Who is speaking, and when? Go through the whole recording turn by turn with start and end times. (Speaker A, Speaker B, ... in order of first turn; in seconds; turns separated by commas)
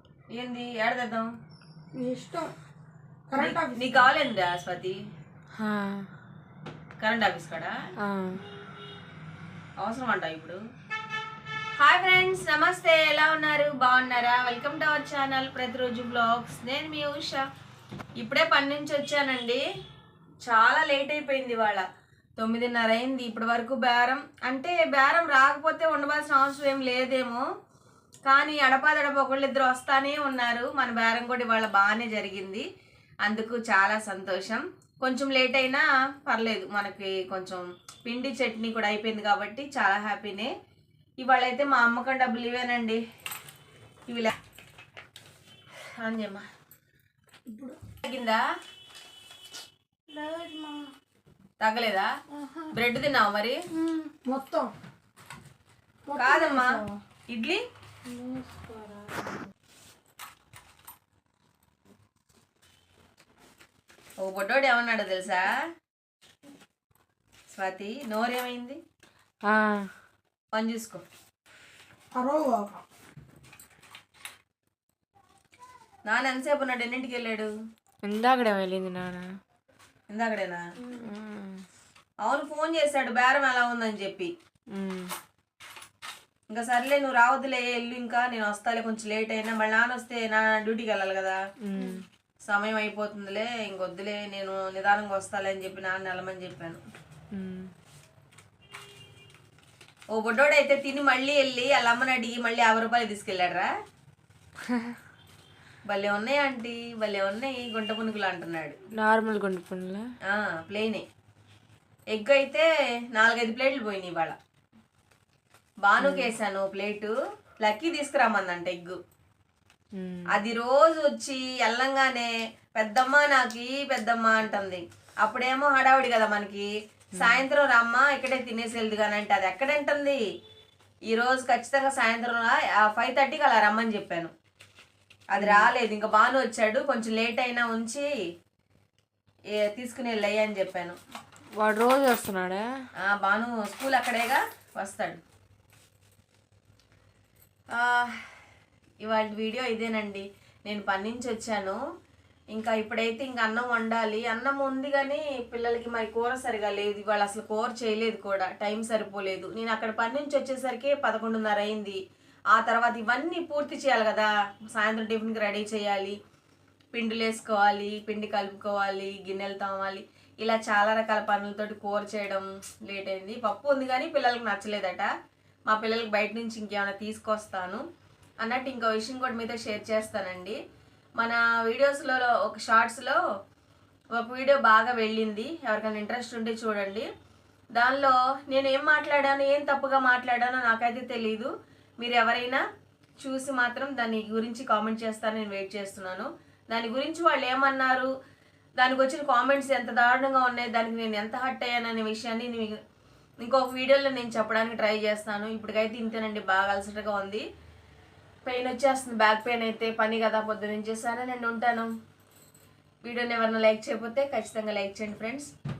Speaker A: 0.3-1.3, Speaker B: 1.9-2.5, Speaker B: 3.3-4.0, Speaker A: 3.4-5.0, Speaker C: 5.5-6.1, Speaker A: 7.0-7.7, Speaker C: 8.0-8.4, Speaker A: 9.8-10.6, Speaker A: 11.8-17.4, Speaker A: 18.2-19.6, Speaker A: 20.4-21.8, Speaker A: 22.4-27.4, Speaker A: 28.3-32.6, Speaker A: 33.2-40.5, Speaker A: 41.2-43.0, Speaker A: 44.1-44.3, Speaker A: 46.0-46.4, Speaker B: 47.5-47.8, Speaker A: 48.0-48.4, Speaker B: 50.1-50.9, Speaker A: 51.6-52.1, Speaker B: 52.3-52.7, Speaker A: 52.7-53.6, Speaker B: 53.8-54.7, Speaker B: 56.0-57.0, Speaker A: 56.2-57.6, Speaker B: 58.1-59.3, Speaker A: 64.2-65.5, Speaker A: 67.5-68.8, Speaker C: 69.4-69.9, Speaker A: 70.5-71.0, Speaker B: 72.1-72.7, Speaker A: 76.1-77.5, Speaker C: 78.0-79.3, Speaker A: 80.1-80.6, Speaker C: 80.9-81.6, Speaker A: 82.2-84.3, Speaker C: 84.7-85.1, Speaker A: 86.5-91.4, Speaker C: 91.6-92.0, Speaker A: 92.5-96.8, Speaker C: 97.3-97.7, Speaker A: 100.1-103.7, Speaker A: 105.9-108.7, Speaker C: 109.0-110.0, Speaker A: 110.3-111.0, Speaker A: 112.1-114.3, Speaker A: 115.8-119.0, Speaker C: 116.0-116.3, Speaker C: 120.0-120.3, Speaker A: 120.3-130.2, Speaker A: 131.1-134.3, Speaker A: 135.3-138.1, Speaker C: 135.4-135.7, Speaker A: 139.6-141.0, Speaker C: 141.6-142.7, Speaker A: 143.0-145.2, Speaker A: 147.8-148.3, Speaker A: 149.0-151.8, Speaker A: 152.5-162.0, Speaker A: 162.5-166.1, Speaker A: 166.9-175.1, Speaker A: 175.7-177.8, Speaker A: 178.4-180.6, Speaker A: 181.2-183.2, Speaker A: 184.2-187.1, Speaker A: 187.8-192.6, Speaker A: 193.2-198.1, Speaker A: 198.8-202.8, Speaker A: 203.4-207.4, Speaker A: 208.4-211.9, Speaker A: 213.0-215.5